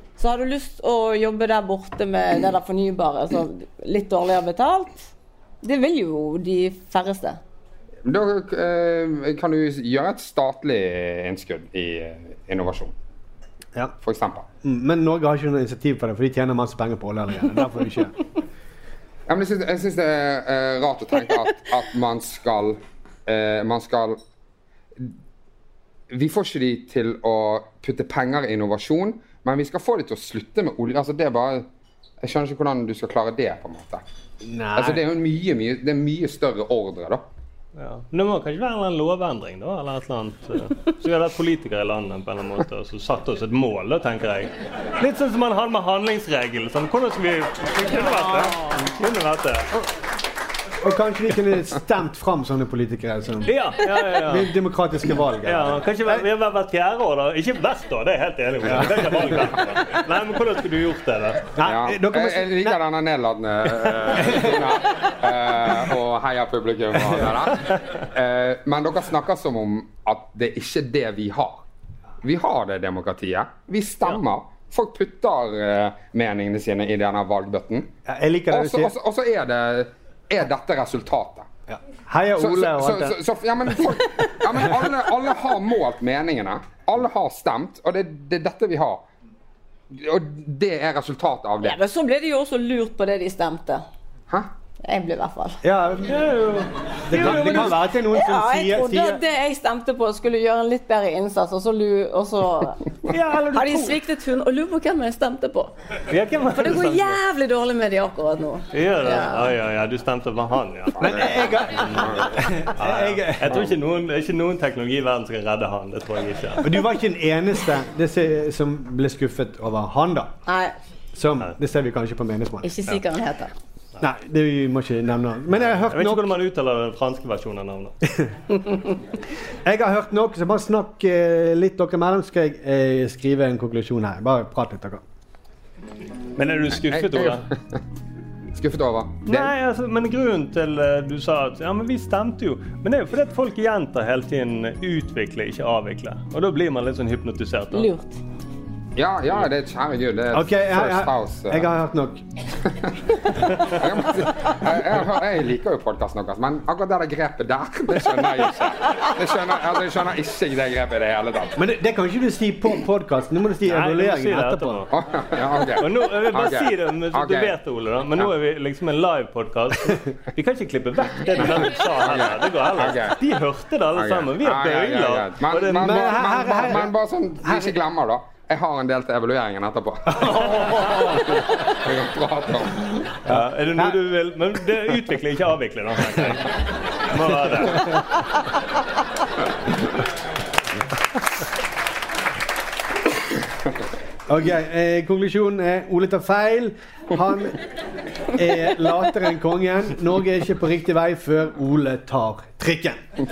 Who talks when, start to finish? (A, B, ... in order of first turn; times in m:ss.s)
0:00.2-0:05.1 A
0:05.6-0:07.4 A
0:08.0-0:12.9 B
0:14.0-0:14.5 B
0:14.6-0:18.2 C
0:19.3-0:24.2 B
0:26.1-0:31.6 B
0:32.2-0:34.0 B
0:34.4-0:35.0 C
0:34.8-0:37.2 B
0:37.8-0:49.7 D
0:50.8-0:53.5 C
0:53.4-0:54.5 D
0:54.1-0:56.3 C
0:55.4-1:01.5 D
0:58.6-0:59.5 C
1:01.5-1:02.8 C
1:01.6-1:11.6 B
1:04.1-1:04.8 C
1:12.2-1:17.9 B
1:18.0-1:18.9 C
1:18.5-1:21.5 B
1:21.7-1:23.2 C
1:22.4-1:29.0 B
1:29.9-1:31.8 B
1:31.6-1:33.8 A
1:34.8-1:35.6 A
1:35.6-1:36.2 C
1:36.1-1:37.8 D
1:37.1-1:39.2 C
1:38.1-1:42.8 A
1:43.1-1:44.0 D
1:43.5-1:45.7 A
1:46.1-1:47.2 D
1:46.5-1:49.5 A
1:48.7-1:56.6 D
1:51.0-1:51.4 B
1:51.0-1:53.7 C
1:52.0-1:52.2 B
1:56.6-2:00.4 C
2:00.4-2:00.7 A
2:01.1-2:02.7 C
2:02.6-2:03.5 A
2:04.0-2:06.3 C
2:05.7-2:08.0 D
2:09.6-2:15.0 C
2:16.4-2:17.4 D
2:16.8-2:17.8 B
2:18.5-2:19.5 B
2:19.2-2:27.9 D
2:27.7-2:28.2 A
2:29.0-2:31.7 B
2:30.3-2:32.2 C
2:32.6-2:32.9 B
2:33.6-2:41.6 B
2:41.6-2:44.8 C
2:43.6-2:44.9 D
2:44.9-2:47.5 B
2:45.8-2:56.7 D
2:51.3-2:53.2 B
2:53.9-3:03.0 B
2:55.7-2:57.8 C
3:00.1-3:01.1 C
3:03.2-3:08.0 D
3:14.3-3:17.6 C
3:18.3-3:23.0 C